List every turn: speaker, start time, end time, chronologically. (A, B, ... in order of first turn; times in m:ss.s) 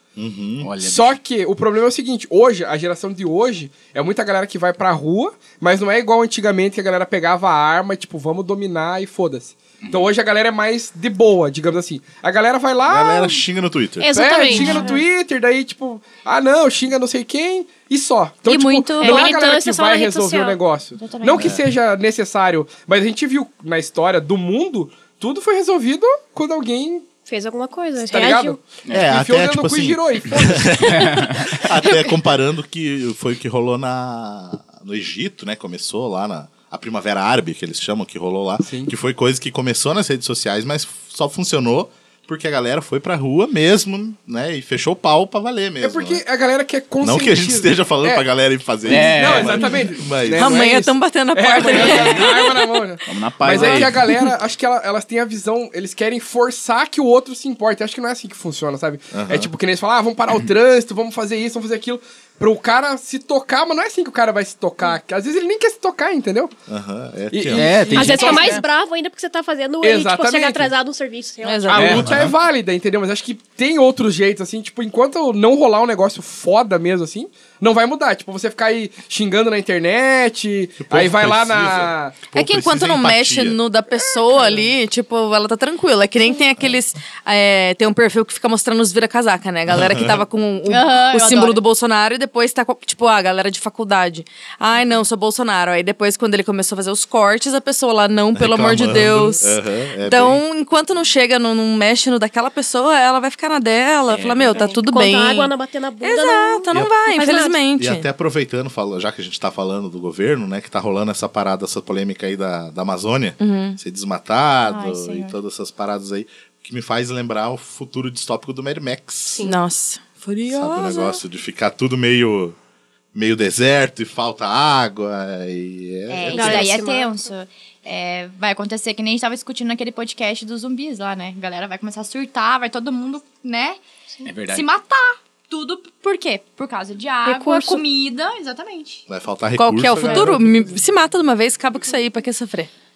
0:00.2-0:00.7 A
0:00.6-0:01.2 B
0:00.8-0:13.4 C
0:09.8-0:10.1 B
0:12.8-0:14.7 A
0:14.0-0:15.0 D
0:14.1-0:27.1 C
0:14.6-0:14.8 E
0:18.4-0:19.3 E
0:19.0-0:20.6 D
0:21.0-0:21.5 E
0:27.2-0:28.6 D
0:28.0-0:30.9 C
0:28.9-0:46.2 A
0:30.8-0:31.6 B
0:38.6-0:38.9 C
0:45.8-0:48.2 C
0:47.0-0:50.6 A
0:48.8-0:49.7 B
0:48.8-1:06.5 C
0:50.4-0:52.8 F
0:53.1-0:54.0 B
0:53.4-0:54.3 F
0:59.1-0:59.5 A
1:06.7-1:08.3 A
1:07.3-1:08.6 C
1:07.5-1:08.6 B
1:07.9-1:11.9 D
1:09.8-1:10.7 C
1:11.4-1:12.0 F
1:11.7-1:22.3 C
1:11.7-1:12.2 B
1:11.9-1:12.3 A
1:20.8-1:23.6 A
1:22.3-1:48.0 F
1:23.9-1:24.7 C
1:29.7-1:30.2 A
1:30.7-1:31.6 E
1:38.3-1:40.4 A
1:44.1-1:44.7 B
1:44.5-1:47.6 D
1:47.8-1:59.4 A
1:53.4-1:53.8 F
1:54.6-1:55.4 E
1:59.3-1:59.6 D
1:59.4-2:01.2 F
2:00.5-2:02.6 A
2:03.1-2:06.7 A
2:06.1-2:13.8 E
2:06.3-2:07.2 D
2:14.2-2:14.7 B
2:14.5-2:19.0 E
2:17.2-2:17.8 D
2:19.1-2:20.5 A
2:19.6-2:22.7 F